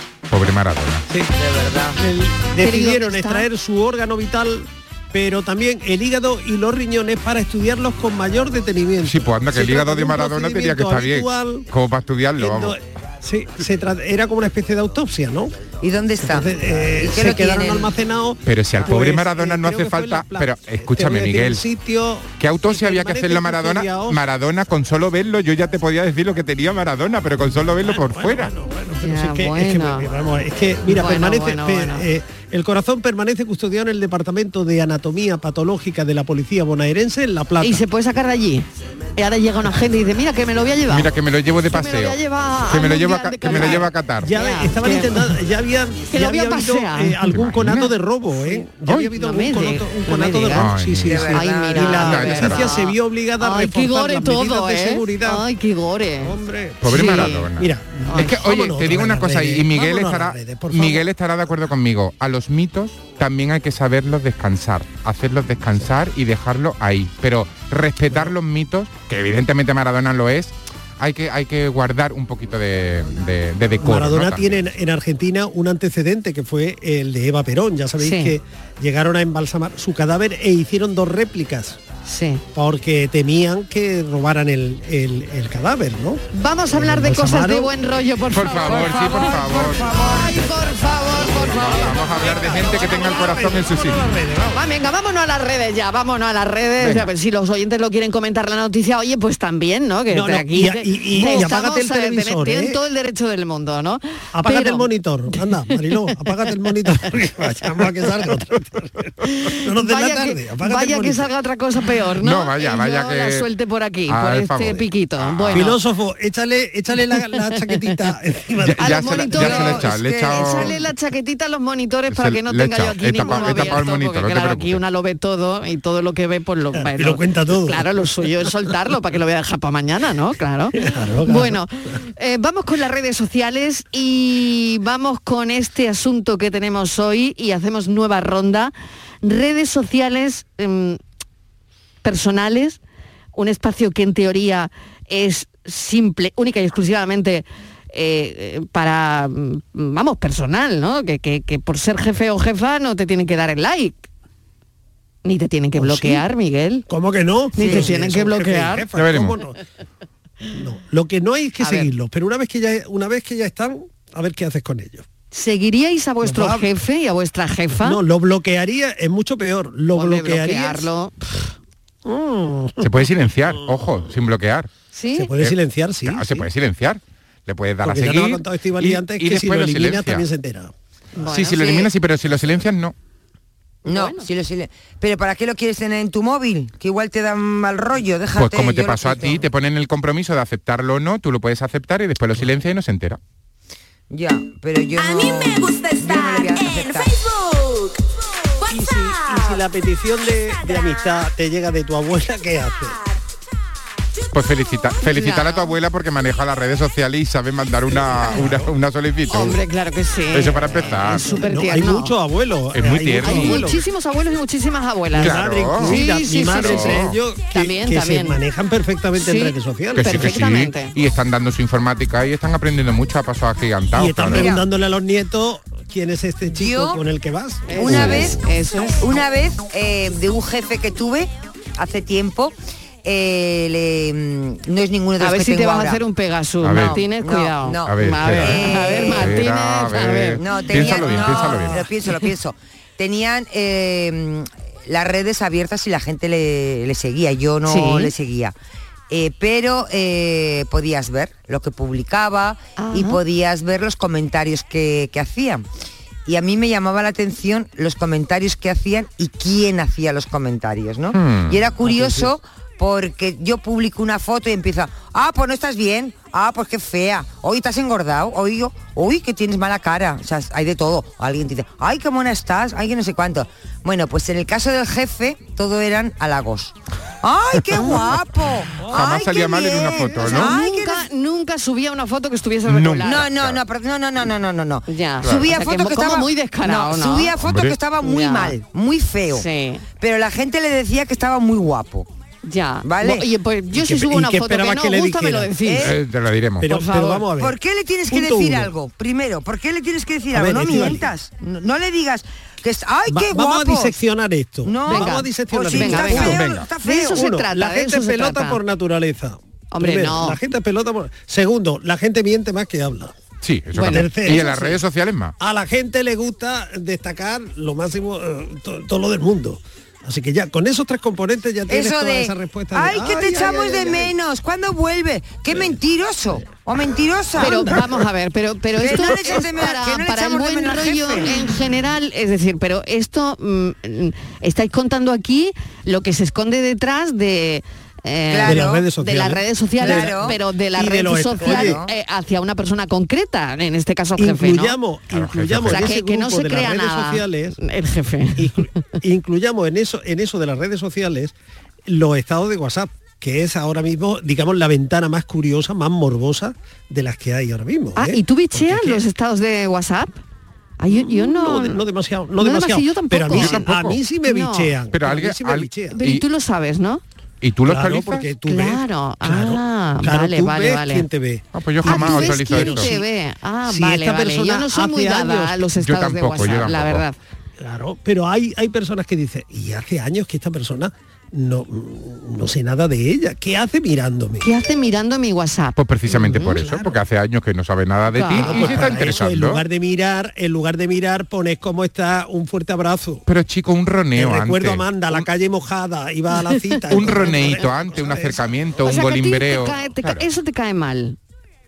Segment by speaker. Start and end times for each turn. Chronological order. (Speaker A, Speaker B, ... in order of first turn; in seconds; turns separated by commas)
Speaker A: 0.3-1.1, Speaker B: 1.4-1.9, Speaker C: 1.9-11.7, Speaker D: 2.6-3.5, Speaker A: 9.0-12.7, Speaker C: 12.4-15.6, Speaker B: 15.8-17.9, Speaker C: 16.2-24.2, Speaker A: 18.4-21.6, Speaker A: 22.4-28.5, Speaker C: 27.8-37.8, Speaker D: 29.0-30.1, Speaker D: 30.9-32.0, Speaker D: 37.6-41.1, Speaker A: 40.9-44.3, Speaker D: 41.7-45.2, Speaker C: 43.5-55.4, Speaker D: 46.1-47.2, Speaker A: 47.3-47.9, Speaker D: 49.1-50.7, Speaker A: 50.5-51.2, Speaker B: 51.0-52.0, Speaker D: 51.3-57.5, Speaker A: 51.9-52.7, Speaker C: 56.2-61.1, Speaker A: 56.8-74.7, Speaker D: 58.1-58.3, Speaker C: 68.1-68.3, Speaker C: 73.8-81.8, Speaker D: 78.0-78.3, Speaker D: 82.0-82.4, Speaker C: 82.5-87.7, Speaker D: 86.3-92.6, Speaker A: 88.3-90.3, Speaker C: 88.8-90.6, Speaker A: 91.0-94.1, Speaker C: 91.3-94.6, Speaker D: 94.5-106.1, Speaker A: 96.8-97.1, Speaker C: 100.1-102.8, Speaker C: 104.3-111.3, Speaker D: 109.2-115.8, Speaker A: 112.2-113.5, Speaker A: 114.1-115.7, Speaker C: 115.5-119.9, Speaker D: 117.7-117.9, Speaker A: 118.6-120.7, Speaker D: 118.8-138.7, Speaker B: 119.3-120.7, Speaker A: 122.1-124.8, Speaker C: 123.2-123.7, Speaker C: 126.7-127.9, Speaker C: 130.7-131.6, Speaker D: 139.2-141.0, Speaker D: 142.0-142.8, Speaker D: 143.3-154.1, Speaker D: 155.2-156.8, Speaker C: 155.8-156.2, Speaker C: 156.9-159.6, Speaker D: 157.6-158.8, Speaker B: 157.6-157.9, Speaker A: 158.9-159.4, Speaker C: 160.5-165.1, Speaker D: 161.6-161.9, Speaker D: 165.3-168.0, Speaker C: 166.2-166.7, Speaker C: 167.8-170.9, Speaker D: 169.9-171.4, Speaker C: 172.0-172.9, Speaker A: 172.8-174.7, Speaker D: 174.9-175.3, Speaker C: 175.1-176.5, Speaker A: 175.4-180.2, Speaker C: 177.8-181.2, Speaker D: 181.2-181.9, Speaker A: 181.2-182.9, Speaker B: 183.8-189.4, Speaker D: 183.9-184.2, Speaker A: 188.3-193.2, Speaker B: 194.1-197.1, Speaker E: 194.9-199.6, Speaker C: 198.7-203.0, Speaker E: 200.4-201.3, Speaker E: 202.7-204.9, Speaker A: 204.3-209.6, Speaker D: 205.0-205.7, Speaker C: 207.9-208.7, Speaker D: 209.3-212.1, Speaker A: 210.3-211.3, Speaker C: 210.8-213.8, Speaker A: 212.7-213.7, Speaker D: 213.2-218.4, Speaker C: 215.1-220.4, Speaker A: 215.2-216.0, Speaker A: 216.5-217.2, Speaker D: 219.2-220.9, Speaker A: 219.9-224.5, Speaker C: 223.9-228.4, Speaker B: 224.2-224.6, Speaker B: 226.5-227.0, Speaker D: 227.7-229.2, Speaker B: 227.7-228.5, Speaker B: 229.0-236.0, Speaker D: 235.2-240.9, Speaker A: 236.6-237.0, Speaker B: 236.7-239.4, Speaker A: 237.8-241.9, Speaker B: 240.4-248.5, Speaker D: 247.7-248.1, Speaker B: 249.1-255.7, Speaker D: 252.8-253.2, Speaker B: 256.2-281.1, Speaker A: 261.1-261.6, Speaker C: 261.9-262.3, Speaker D: 277.7-278.1, Speaker C: 278.8-280.4, Speaker A: 278.8-280.5, Speaker D: 280.2-283.2, Speaker A: 282.6-283.6, Speaker B: 283.0-289.4, Speaker D: 284.9-287.3, Speaker A: 285.2-285.5, Speaker A: 287.4-287.8, Speaker D: 288.0-288.5, Speaker D: 289.3-289.8, Speaker B: 290.0-292.1, Speaker D: 292.4-295.9, Speaker B: 292.8-293.3, Speaker C: 293.7-295.6, Speaker B: 295.6-295.9, Speaker A: 295.8-296.7, Speaker C: 296.6-297.6, Speaker D: 296.7-297.3, Speaker B: 297.4-304.0, Speaker C: 298.1-298.7, Speaker C: 300.3-301.1, Speaker C: 303.1-306.5, Speaker B: 304.6-307.3, Speaker D: 304.9-308.6, Speaker A: 306.2-306.7, Speaker C: 307.0-313.1, Speaker D: 309.7-310.4, Speaker A: 313.4-315.3, Speaker D: 313.7-314.8, Speaker C: 313.8-314.5, Speaker C: 315.4-324.1, Speaker B: 321.7-327.8, Speaker C: 325.5-325.8, Speaker C: 327.3-328.0, Speaker D: 327.4-344.8, Speaker B: 328.8-331.4, Speaker B: 338.3-338.9, Speaker C: 338.4-341.8, Speaker B: 339.8-340.4, Speaker B: 341.4-341.9, Speaker C: 344.2-347.6, Speaker A: 345.1-345.9, Speaker D: 345.6-348.6, Speaker C: 348.4-351.3, Speaker C: 351.9-359.1, Speaker D: 357.9-360.2, Speaker D: 360.8-361.8, Speaker C: 360.9-366.0, Speaker D: 362.4-363.6, Speaker A: 363.3-364.0, Speaker D: 364.2-364.7, Speaker A: 364.9-366.2, Speaker D: 365.9-367.0, Speaker A: 367.4-368.3, Speaker C: 367.7-373.0, Speaker D: 368.5-371.1, Speaker A: 371.5-372.9, Speaker D: 371.8-377.2, Speaker C: 373.7-375.6, Speaker A: 375.8-377.1, Speaker C: 377.6-384.5, Speaker D: 384.4-386.6, Speaker A: 385.8-389.6, Speaker C: 386.3-387.0, Speaker D: 388.1-388.9, Speaker C: 388.3-393.2, Speaker A: 393.3-395.2, Speaker C: 394.1-398.8, Speaker A: 396.9-400.2, Speaker D: 398.8-401.2